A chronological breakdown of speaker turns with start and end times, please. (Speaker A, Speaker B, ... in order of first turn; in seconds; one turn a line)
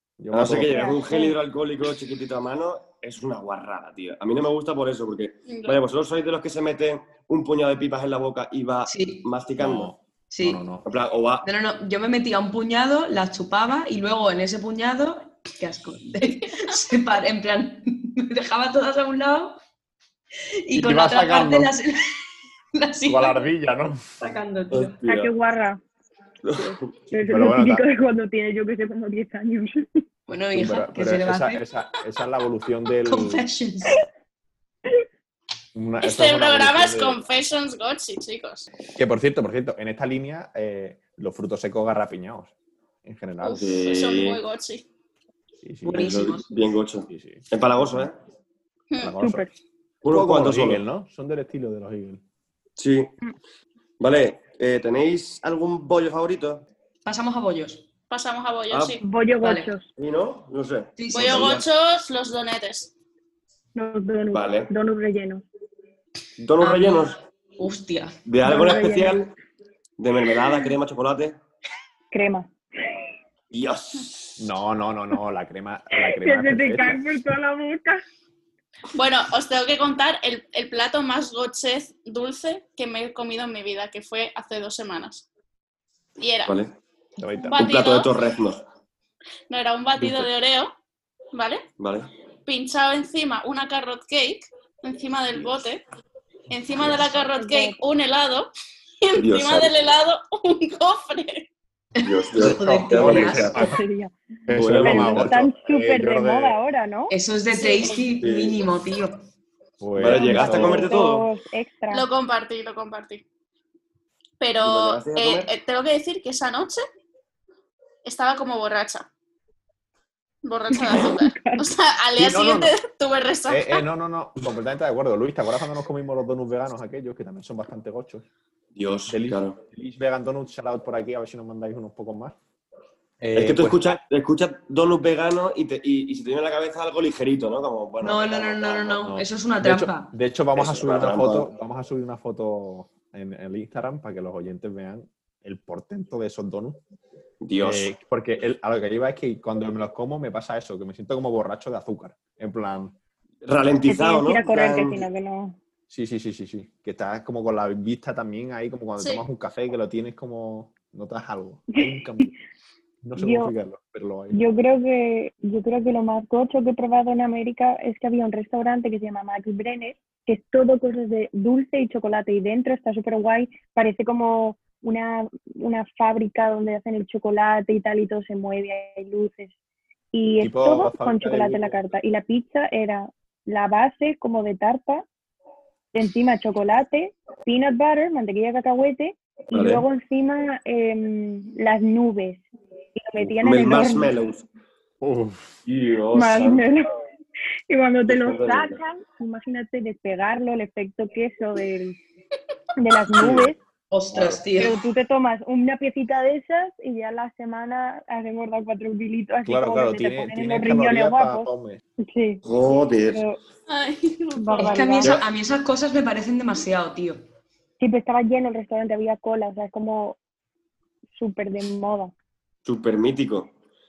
Speaker A: 0.2-1.0
Speaker B: 0.3-9.9
Speaker C: 0.7-1.3
Speaker D: 5.5-5.8
Speaker E: 8.9-9.2
Speaker A: 9.6-10.8
Speaker E: 10.3-10.6
Speaker B: 10.8-11.4
Speaker E: 11.4-19.6
Speaker E: 20.6-22.2
Speaker A: 20.7-21.7
Speaker E: 22.7-23.4
Speaker A: 23.1-24.2
Speaker E: 24.2-25.0
Speaker B: 24.7-25.3
Speaker C: 25.0-25.8
Speaker B: 26.4-26.9
Speaker C: 26.6-30.0
Speaker A: 27.2-27.8
Speaker E: 30.3-31.6
Speaker A: 30.5-33.4
Speaker E: 33.0-34.0
Speaker A: 35.7-37.2
Speaker D: 36.0-38.7
Speaker A: 39.0-42.5
Speaker A: 43.0-43.7
Speaker D: 43.4-44.9
Speaker B: 43.5-44.4
Speaker A: 45.6-46.2
Speaker E: 45.8-46.5
Speaker B: 46.0-48.2
Speaker A: 47.1-48.0
Speaker D: 48.9-49.2
Speaker A: 49.0-49.5
Speaker C: 49.2-49.5
Speaker B: 50.0-50.8
Speaker A: 50.0-52.2
Speaker B: 52.8-53.1
Speaker B: 54.0-56.6
Speaker E: 57.0-57.9
Speaker D: 58.1-59.0
Speaker B: 58.7-59.0
Speaker C: 59.0-59.9
Speaker E: 59.4-59.7
Speaker B: 60.0-61.6
Speaker E: 61.0-61.5
Speaker D: 61.1-62.9
Speaker C: 63.7-65.4
Speaker B: 64.3-64.7
Speaker B: 66.4-67.2
Speaker E: 66.6-68.1
Speaker B: 68.2-69.3
Speaker C: 68.4-69.2
Speaker B: 70.0-71.4
Speaker C: 72.1-72.5
Speaker B: 73.5-74.4
Speaker A: 74.4-77.0
Speaker C: 76.0-78.0
Speaker D: 78.9-85.3
Speaker D: 86.2-86.5
Speaker B: 86.5-86.7
Speaker A: 87.2-87.5
Speaker D: 87.5-88.1
Speaker B: 87.6-88.6
Speaker D: 89.5-90.7
Speaker A: 90.0-90.2
Speaker D: 91.3-91.7
Speaker B: 91.8-92.1
Speaker D: 92.5-95.8
Speaker D: 96.5-98.5
Speaker C: 97.3-97.8
Speaker D: 99.0-101.5
Speaker B: 99.2-99.7
Speaker E: 102.0-103.6
Speaker B: 102.0-103.6
Speaker A: 102.5-103.8
Speaker C: 103.5-104.1
Speaker A: 104.5-106.6
Speaker B: 104.5-105.4
Speaker C: 104.7-107.1
Speaker E: 107.1-109.2
Speaker D: 107.5-108.0
Speaker B: 108.2-108.6
Speaker A: 109.8-111.0
Speaker B: 110.0-111.3
Speaker C: 110.1-112.0
Speaker D: 111.9-113.2
Speaker D: 114.4-116.8
Speaker B: 114.6-115.5
Speaker D: 118.0-119.1
Speaker D: 120.4-123.8
Speaker C: 120.7-121.7
Speaker A: 122.2-122.7
Speaker A: 123.5-128.2
Speaker B: 128.7-129.6
Speaker A: 129.1-132.4
Speaker A: 133.2-134.0
Speaker B: 133.3-139.1
Speaker E: 138.0-140.1
Speaker A: 139.0-146.8
Speaker B: 140.5-141.5
Speaker B: 147.4-147.9
Speaker A: 147.6-152.9
Speaker B: 153.4-155.1
Speaker C: 153.9-155.6
Speaker A: 155.9-162.3
Speaker D: 159.0-159.2
Speaker C: 161.8-162.3
Speaker A: 163.0-164.4
Speaker C: 163.2-163.5
Speaker C: 164.3-179.5
Speaker C: 180.1-185.0
Speaker A: 180.4-181.8
Speaker C: 185.9-192.4
Speaker B: 189.5-189.9
Speaker C: 193.0-194.1
Speaker B: 193.2-194.4
Speaker A: 195.0-195.6
Speaker B: 195.6-196.6
Speaker C: 196.1-196.8
Speaker C: 197.7-202.0
Speaker B: 198.1-198.8
Speaker C: 202.8-203.6
Speaker B: 203.1-203.5
Speaker E: 203.9-204.8
Speaker A: 204.1-204.4
Speaker C: 204.6-211.5
Speaker A: 209.4-211.8
Speaker C: 212.0-212.4
Speaker B: 212.4-213.2
Speaker C: 213.1-213.4
Speaker D: 213.7-215.0
Speaker C: 214.3-215.2
Speaker E: 214.5-217.2
Speaker C: 217.8-220.2
Speaker C: 221.2-222.1
Speaker B: 222.6-223.5